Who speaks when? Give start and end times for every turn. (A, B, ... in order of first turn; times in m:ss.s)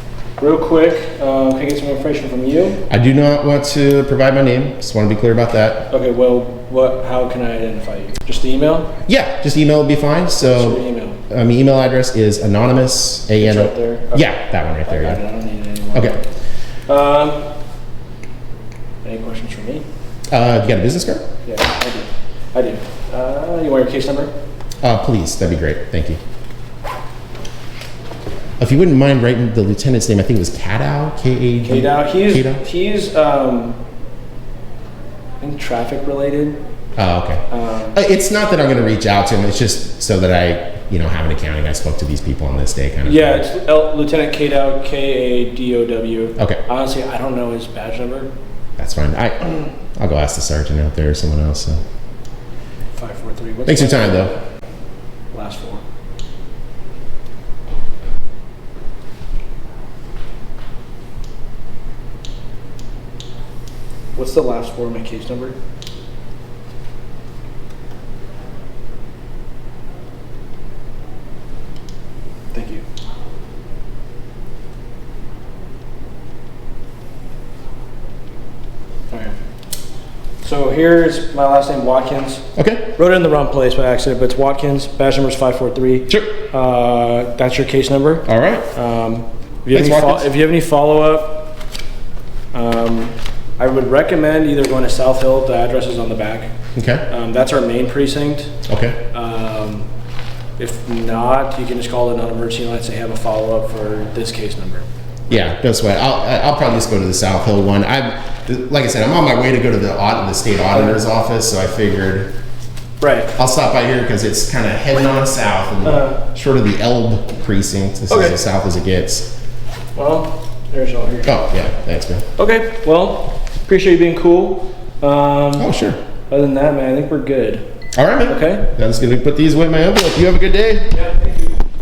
0:00.4-0:02.8 A
0:02.9-0:05.9 B
0:05.9-0:08.9 A
0:09.0-0:15.2 B
0:10.5-0:11.2 A
0:13.4-0:14.3 A
0:14.8-0:16.2 A
0:16.9-0:17.5 A
0:19.0-0:19.8 A
0:20.3-0:21.3 B
0:21.4-0:24.3 A
0:24.8-0:26.2 B
0:28.6-0:32.6 B
0:31.6-0:33.8 A
0:35.4-0:36.6 A
0:37.0-0:43.4 B
0:37.5-0:38.0 A
0:43.0-0:48.3 A
0:48.8-0:51.8 B
0:52.9-0:54.4 A
0:53.6-0:54.3 B
0:55.3-0:55.8 A
1:04.1-1:05.6 A
1:12.5-1:12.8 A
1:20.4-1:22.4 A
1:22.6-1:22.9 B
1:23.0-1:31.6 A
1:26.1-1:26.4 B
1:28.3-1:28.7 B
1:29.7-1:30.3 B
1:32.5-1:36.5 A
1:36.7-1:37.0 B
1:37.1-1:38.5 A
1:38.7-1:39.0 B
1:39.1-1:39.8 A
1:40.6-1:44.8 A
1:45.3-1:52.3 B
1:50.7-1:51.0 A
1:53.0-1:53.3 A
1:53.4-1:59.3 B
1:55.8-1:56.2 A
1:58.1-1:58.4 A
2:00.0-2:01.3 A
2:01.2-2:02.2 B
2:02.4-2:05.7 A
2:05.6-2:06.0 B
2:06.3-2:07.6 A
2:08.0-2:11.0 B
2:08.3-2:08.7 A
2:10.9-2:11.6 A